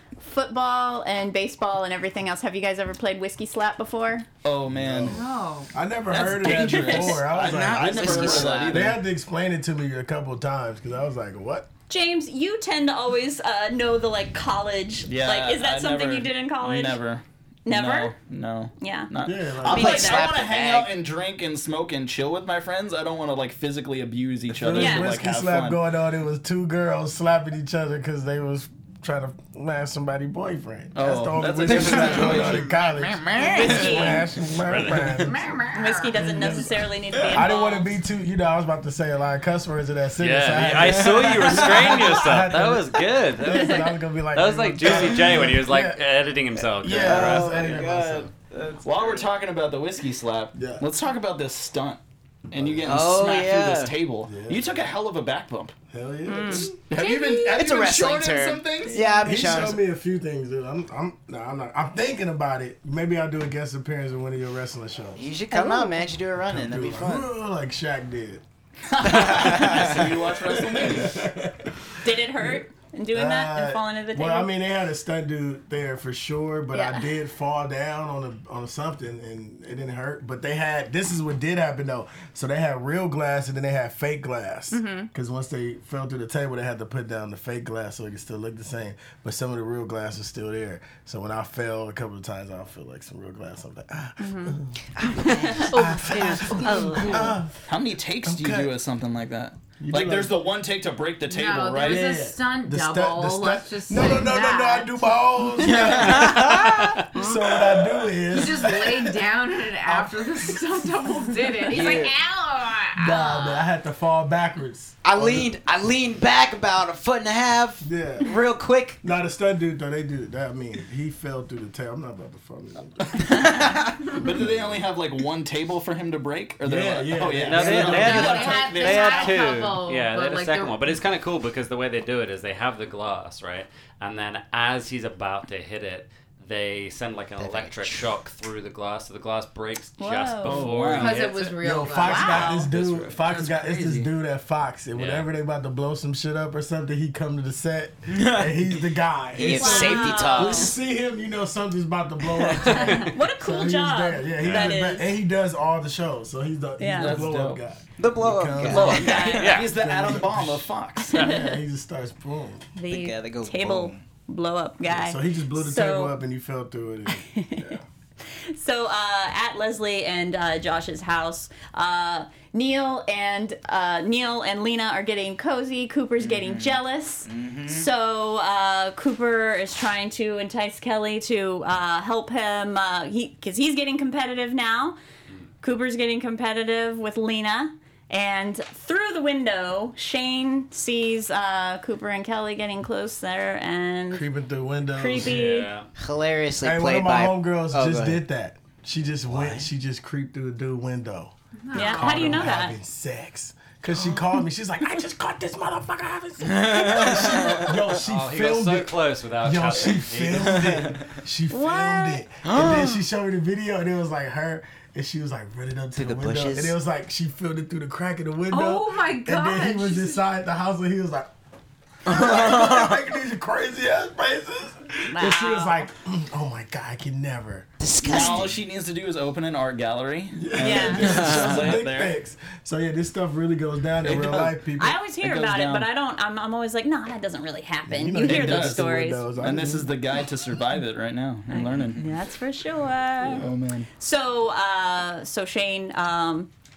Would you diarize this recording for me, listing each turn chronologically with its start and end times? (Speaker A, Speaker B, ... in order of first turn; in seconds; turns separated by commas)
Speaker A: 0.2-4.3, Speaker B: 4.4-5.2, Speaker C: 4.7-5.2, Speaker D: 5.1-5.7, Speaker C: 5.7-11.7, Speaker B: 6.1-9.0, Speaker A: 6.4-7.2, Speaker E: 7.2-8.9, Speaker A: 11.9-17.0, Speaker B: 15.1-25.8, Speaker A: 17.6-18.1, Speaker A: 18.8-19.1, Speaker C: 19.2-20.1, Speaker A: 19.6-20.3, Speaker E: 19.7-20.9, Speaker C: 24.5-35.5, Speaker A: 24.7-25.1, Speaker B: 30.9-32.7, Speaker E: 31.6-34.2, Speaker A: 33.4-34.3, Speaker F: 34.6-35.2, Speaker D: 35.2-36.2, Speaker A: 35.7-37.9, Speaker C: 36.1-46.0, Speaker F: 40.2-48.0, Speaker E: 41.5-41.9, Speaker C: 46.5-48.3, Speaker E: 46.9-49.3, Speaker B: 48.8-52.0, Speaker C: 50.5-50.8, Speaker B: 52.5-55.7, Speaker C: 52.5-53.1, Speaker E: 52.9-54.0, Speaker C: 54.2-54.9, Speaker C: 55.9-56.8, Speaker A: 56.2-56.7, Speaker B: 56.5-59.2, Speaker D: 56.9-57.6, Speaker E: 57.4-59.8, Speaker C: 59.1-65.2, Speaker E: 65.2-67.3, Speaker A: 65.5-66.0, Speaker C: 66.4-68.4, Speaker B: 68.9-71.2, Speaker E: 69.0-70.1, Speaker C: 69.8-71.8, Speaker A: 72.0-74.5, Speaker C: 72.3-72.6, Speaker C: 73.1-94.8, Speaker A: 76.7-77.1, Speaker A: 84.7-85.1, Speaker A: 94.2-94.6, Speaker E: 95.0-95.8, Speaker A: 95.3-97.4, Speaker C: 95.5-97.6, Speaker B: 97.6-102.1, Speaker C: 98.2-98.7, Speaker C: 99.8-100.4, Speaker D: 101.2-105.1, Speaker C: 101.8-109.3, Speaker E: 105.6-107.3, Speaker D: 108.3-113.7, Speaker C: 109.8-110.9, Speaker E: 111.7-112.1, Speaker C: 113.0-115.5, Speaker E: 115.0-119.0, Speaker C: 117.8-118.3, Speaker C: 119.0-123.6, Speaker B: 123.0-129.3, Speaker E: 123.3-124.1, Speaker C: 124.2-124.8, Speaker C: 126.6-128.4, Speaker F: 127.3-141.5, Speaker D: 127.9-130.9, Speaker E: 137.4-138.1, Speaker A: 140.0-140.7, Speaker B: 140.4-141.3, Speaker D: 140.9-142.6, Speaker C: 141.6-162.7, Speaker A: 142.0-142.7, Speaker F: 142.4-144.0, Speaker F: 144.9-145.3, Speaker E: 149.3-150.8, Speaker A: 149.4-150.7, Speaker A: 152.8-155.1, Speaker F: 154.4-154.8, Speaker A: 156.8-157.2, Speaker B: 156.9-157.6, Speaker E: 158.0-159.6, Speaker F: 158.7-159.7, Speaker B: 158.7-161.3, Speaker A: 158.8-159.6, Speaker A: 162.8-166.2, Speaker E: 162.9-164.0, Speaker C: 164.9-167.8, Speaker A: 167.1-167.7, Speaker A: 168.3-185.0, Speaker E: 176.2-177.9, Speaker A: 185.6-194.2, Speaker C: 194.1-195.4, Speaker A: 194.9-195.7, Speaker F: 195.2-195.9, Speaker E: 196.0-198.2, Speaker C: 196.6-221.3, Speaker E: 199.2-199.7, Speaker D: 201.6-202.5, Speaker A: 201.7-202.8, Speaker E: 206.5-207.7, Speaker F: 208.0-210.7, Speaker A: 211.5-212.2, Speaker E: 212.4-213.0, Speaker E: 215.9-216.7, Speaker D: 218.5-220.2, Speaker C: 222.1-227.7, Speaker E: 222.1-222.9, Speaker A: 225.1-225.8, Speaker E: 227.8-228.6, Speaker B: 228.0-232.1, Speaker C: 230.3-235.0, Speaker A: 230.6-231.4, Speaker E: 231.1-231.7, Speaker B: 234.0-234.6, Speaker A: 234.8-239.2, Speaker B: 235.1-235.9, Speaker C: 237.9-239.9, Speaker B: 238.2-242.1, Speaker A: 241.5-243.5, Speaker B: 243.2-243.9, Speaker A: 244.0-246.5